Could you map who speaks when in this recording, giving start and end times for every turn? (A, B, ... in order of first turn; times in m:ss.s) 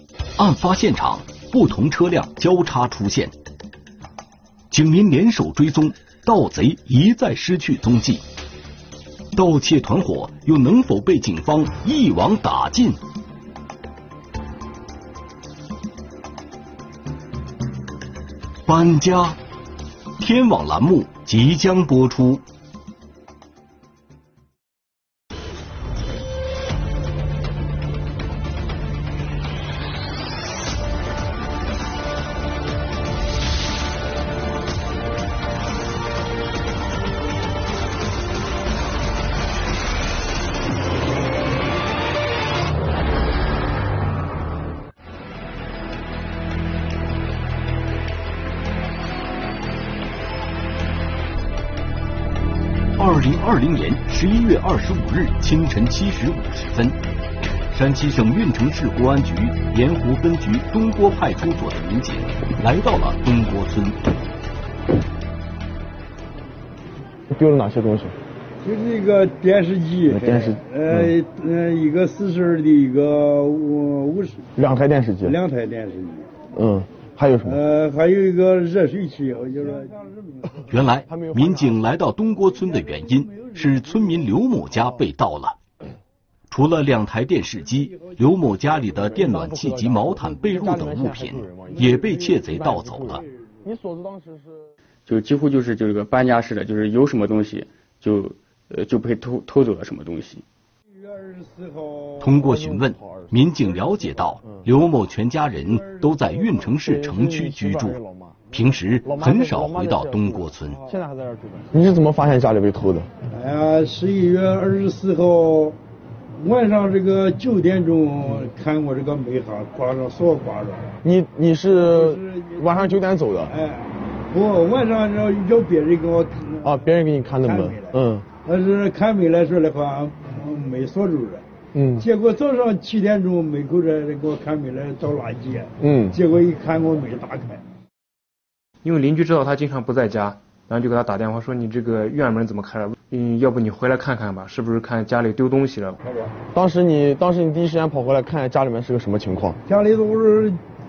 0:00.4-0:03.3 A
0:04.7-0:08.2 A
0:09.3-0:13.0 A
0:18.7-0:19.4 A
0:20.2-0:22.4 A
0:53.0-0:57.0 A
0:57.7-1:04.0 A
1:07.3-1:08.1 B
1:08.6-1:14.4 C
1:10.1-1:11.1 B
1:14.6-1:15.4 B
1:15.2-1:16.3 C
1:16.5-1:17.6 B
1:17.5-1:20.6 C
1:20.7-1:25.6 A
1:21.1-1:21.8 B
1:22.5-1:24.5 C
1:26.5-1:33.2 A
1:28.9-1:34.7 B
1:35.1-1:40.4 D
1:40.9-1:42.2 C
1:42.2-1:48.0 A
1:42.3-1:43.4 B
1:46.7-1:48.4 B
1:48.5-1:50.8 A
1:49.0-1:53.1 B
1:53.3-1:55.8 C
1:56.4-2:01.0 C
2:01.0-2:03.5 B
2:01.8-2:06.8 C
2:06.6-2:08.2 B
2:07.4-2:07.9 C
2:08.4-2:11.4 C
2:11.7-2:12.1 B
2:12.0-2:17.6 C
2:15.8-2:16.2 B
2:18.8-2:26.0 E
2:26.5-2:29.6 B
2:29.7-2:30.6 C